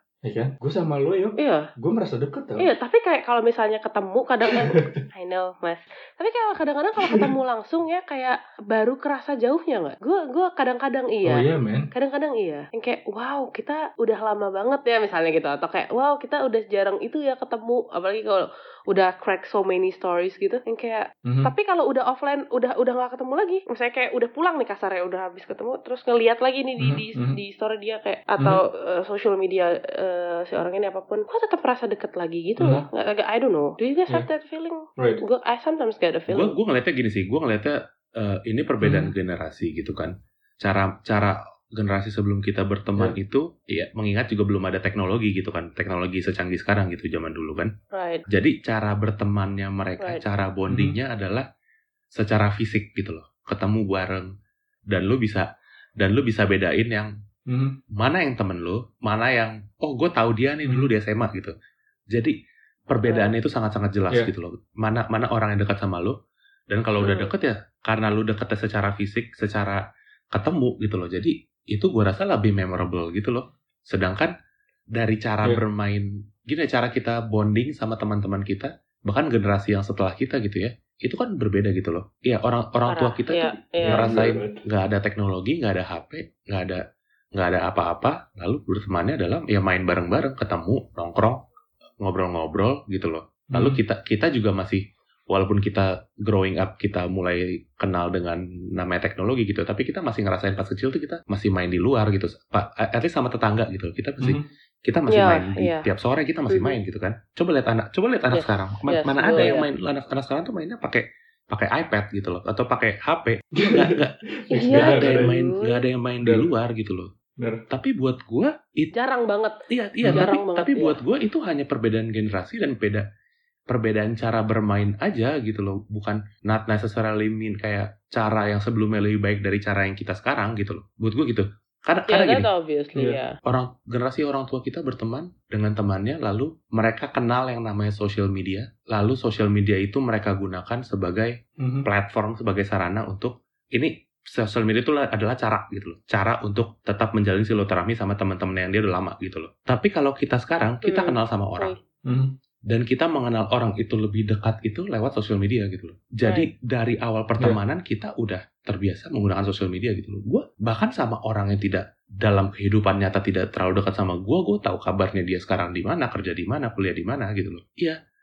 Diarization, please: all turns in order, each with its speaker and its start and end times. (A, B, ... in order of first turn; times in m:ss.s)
0:00.2-0:02.7 A
0:01.4-0:01.7 B
0:02.6-0:36.5 B
0:04.5-0:05.0 A
0:07.0-0:07.3 A
0:11.2-0:11.9 A
0:21.3-0:21.5 A
0:26.8-0:27.4 A
0:32.6-0:32.8 A
0:36.3-0:47.7 C
0:38.8-0:39.1 A
0:47.9-0:48.2 B
0:48.3-0:51.5 C
0:50.7-0:51.0 A
0:52.2-0:54.3 C
0:54.9-0:55.5 C
0:56.0-0:57.1 C
0:57.5-0:57.8 A
0:58.0-1:01.5 C
1:02.9-1:06.1 C
1:03.1-1:03.3 B
1:06.7-1:09.8 C
1:07.0-1:07.3 B
1:10.3-1:14.3 C
1:15.0-1:26.8 C
1:22.9-1:24.1 B
1:23.8-1:24.6 A
1:27.4-1:31.4 C
1:32.0-1:54.2 C
1:33.5-1:33.8 A
1:44.2-1:44.5 A
1:45.1-1:45.9 B
1:46.5-1:46.8 B
1:48.3-1:49.7 B
1:53.6-1:55.3 A
1:54.5-1:55.8 B
1:54.7-1:57.1 C
1:56.2-1:56.5 A
1:57.4-1:57.6 A
1:57.7-1:58.9 C
1:58.9-1:59.6 B
1:59.7-2:03.0 C
2:00.0-2:00.3 A
2:00.1-2:01.0 B
2:03.7-2:12.5 C
2:12.1-2:13.4 B
2:13.4-2:21.3 C
2:21.6-2:21.9 A
2:21.9-2:31.8 C
2:30.8-2:31.8 B
2:32.1-2:32.3 A
2:32.7-2:48.0 C